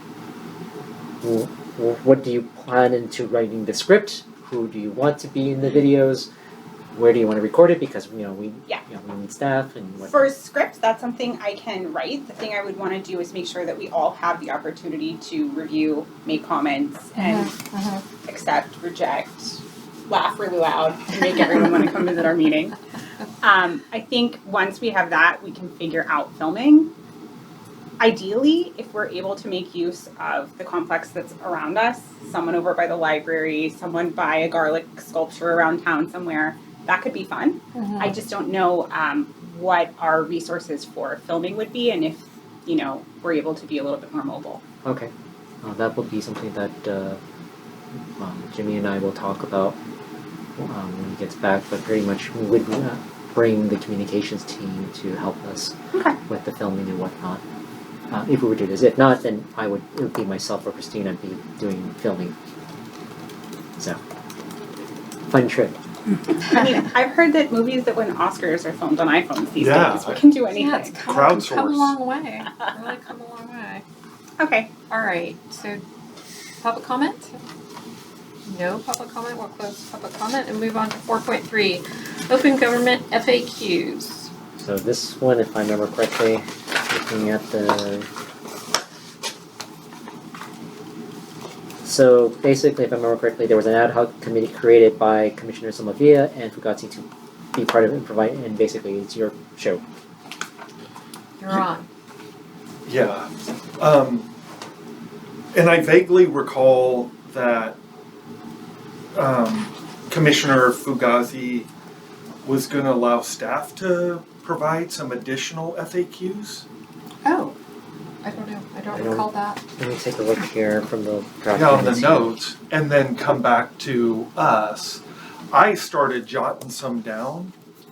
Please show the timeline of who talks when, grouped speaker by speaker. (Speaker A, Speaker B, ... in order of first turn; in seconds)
Speaker A: 1.2-6.3, 6.9-10.2, 44.8-45.1, 45.6-47.2, 48.2-49.8, 50.6-57.4, 58.1-62.3, 65.3-65.8, 84.6-88.1, 91.8-99.8, 118.9-122.4
Speaker B: 10.0-17.6, 18.2-22.8, 23.4-26.9, 28.0-44.6, 66.3-71.0, 74.4-74.7
Speaker C: 17.2-18.0, 37.7-38.1, 70.5-73.8, 74.9-75.8, 76.6-77.4, 78.5-84.3, 101.4-101.9, 117.2-117.5, 118.2-119.6
Speaker D: 69.6-70.4, 71.0-72.0, 102.8-104.3, 105.5-107.8, 109.1-111.7, 112.4-116.7, 121.5-127.5